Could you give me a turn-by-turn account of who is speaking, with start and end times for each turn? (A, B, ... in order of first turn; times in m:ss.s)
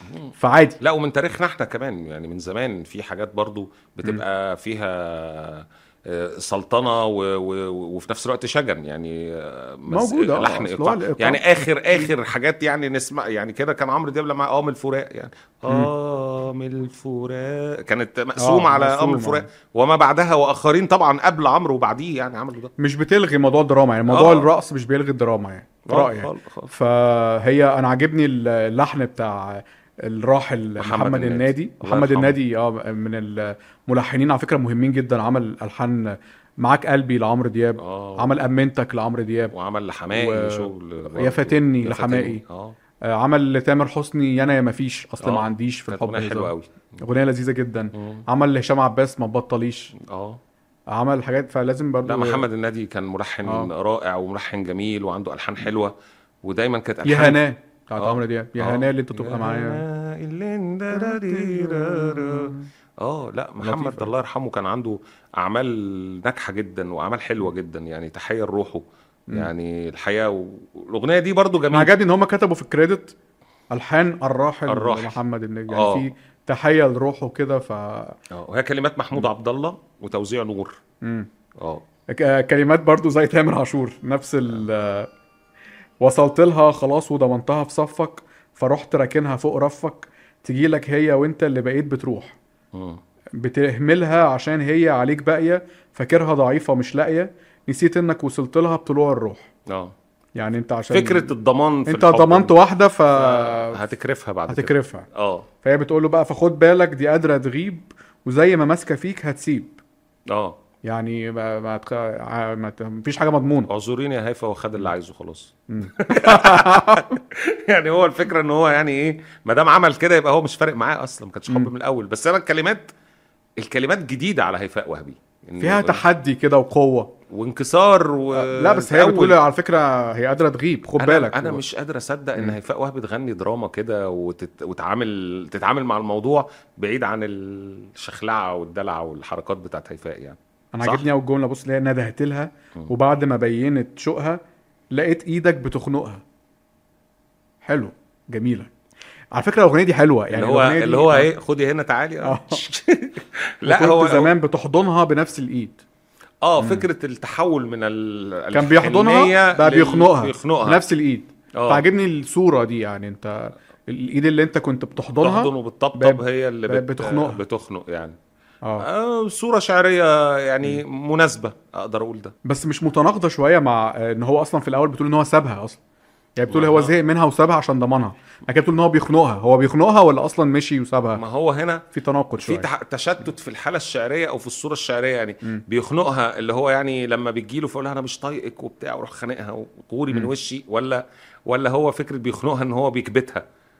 0:00.1-0:22.7 A
0:00.4-0:00.8 B
0:09.9-0:12.1 B
0:18.4-0:19.4 B
0:22.8-0:39.5 B
0:24.1-0:24.5 A
0:25.9-0:26.7 A
0:30.8-0:32.4 A
0:37.8-0:38.4 A
0:39.5-0:42.8 A
0:40.1-0:42.4 B
0:43.1-0:49.9 B
0:45.2-0:46.7 A
0:47.9-0:48.2 A
0:50.1-0:50.4 A
0:50.9-0:52.4 B
0:52.0-0:55.9 A
0:53.4-0:53.7 B
0:56.4-0:57.4 A
0:57.0-0:59.8 B
0:58.0-1:11.9 A
1:00.9-1:02.7 B
1:03.6-1:04.1 B
1:11.7-1:13.1 B
1:13.7-1:18.2 B
1:14.7-1:15.2 A
1:15.7-1:16.0 A
1:18.3-1:20.8 A
1:21.0-1:21.3 B
1:22.1-1:25.1 B
1:26.0-1:32.4 B
1:32.7-1:33.0 A
1:33.4-1:39.5 B
1:39.7-1:39.9 A
1:40.4-1:43.8 B
1:40.9-1:42.5 A
1:43.1-1:45.5 A
1:44.5-1:45.0 B
1:45.6-1:49.8 B
1:50.3-1:50.6 A
1:50.8-1:53.7 B
1:53.7-2:02.9 A
1:55.7-1:57.2 B
2:03.6-2:06.0 A
2:05.6-2:07.1 B
2:07.3-2:09.4 A
2:08.3-2:11.6 B
2:11.0-2:21.1 A
2:20.7-2:24.4 B
2:24.9-2:26.2 B
2:27.6-2:28.7 B
2:29.3-2:31.3 B
2:30.3-2:34.3 A
2:32.2-2:32.6 B
2:33.6-2:35.8 B
2:36.4-2:40.8 A
2:36.6-2:36.9 B
2:38.5-2:47.4 B
2:41.6-2:41.8 A
2:45.2-2:48.2 A
2:48.8-2:52.3 A
2:52.4-2:55.8 B
2:56.4-3:01.2 B
2:56.5-2:56.9 A
3:01.1-3:01.8 A
3:01.9-3:02.7 B
3:02.4-3:13.4 A